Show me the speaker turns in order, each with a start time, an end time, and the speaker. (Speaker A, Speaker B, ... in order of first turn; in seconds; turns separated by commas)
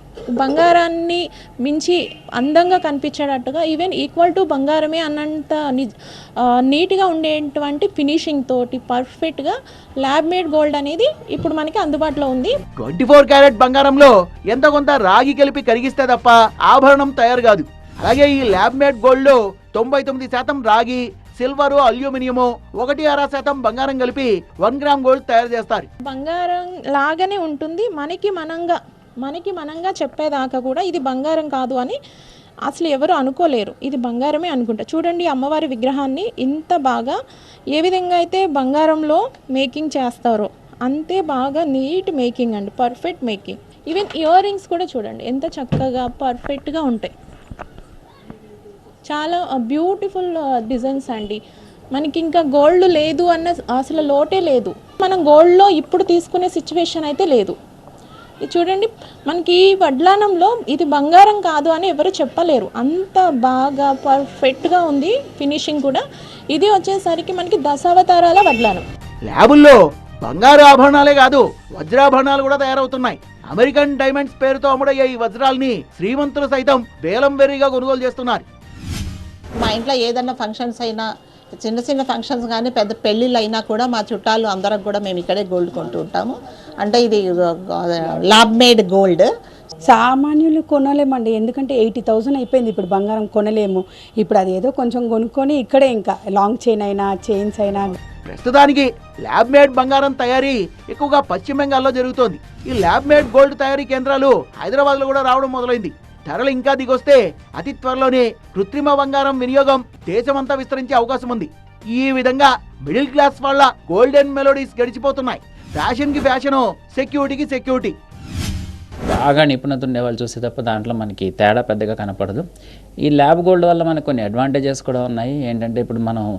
Speaker A: 0.4-5.9, Speaker A: 6.7-12.6, Speaker B: 12.8-25.9, Speaker A: 26.1-32.0, Speaker A: 32.7-37.2, Speaker A: 37.7-47.1, Speaker A: 49.1-51.4, Speaker A: 51.9-57.6, Speaker A: 58.4-68.8, Speaker B: 69.3-78.5, Speaker C: 79.6-81.0, Speaker C: 81.6-86.3, Speaker C: 86.8-89.3, Speaker D: 89.9-98.0, Speaker B: 98.3-117.9, Speaker E: 119.1-122.4, Speaker E: 123.0-126.3